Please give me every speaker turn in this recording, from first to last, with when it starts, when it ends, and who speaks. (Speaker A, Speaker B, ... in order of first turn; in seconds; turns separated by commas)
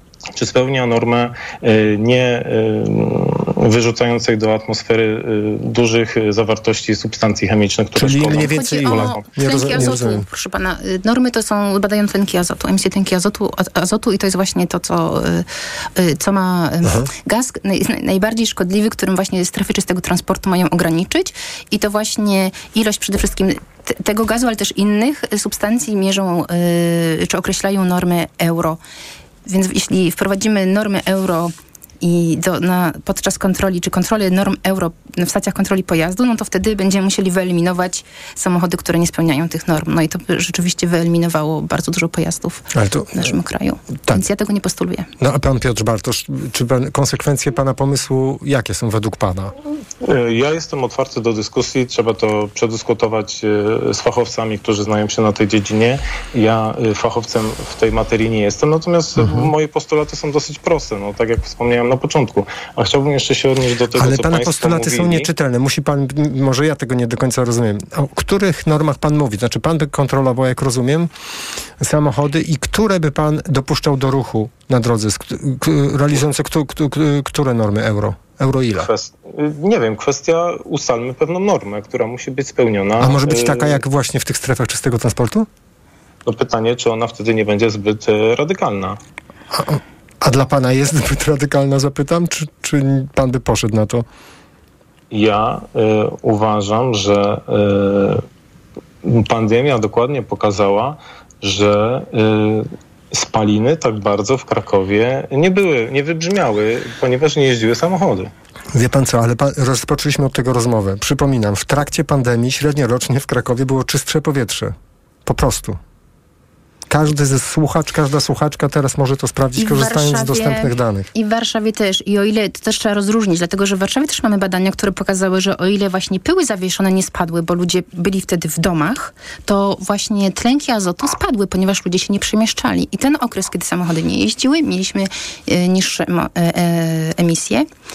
Speaker A: 0.4-9.2, Speaker B: 8.0-10.3, Speaker C: 8.3-28.8, Speaker B: 16.8-17.1, Speaker C: 29.5-45.1, Speaker B: 42.7-43.3, Speaker B: 45.2-49.5, Speaker A: 50.0-65.3, Speaker B: 59.2-59.5, Speaker B: 64.0-71.1, Speaker B: 71.8-78.9, Speaker A: 78.8-83.8, Speaker B: 83.0-85.5, Speaker A: 86.3-89.0, Speaker B: 89.5-94.1, Speaker A: 95.1-98.2, Speaker A: 99.0-108.3, Speaker B: 108.7-114.8, Speaker B: 115.3-115.8, Speaker B: 116.9-121.1, Speaker C: 119.6-137.7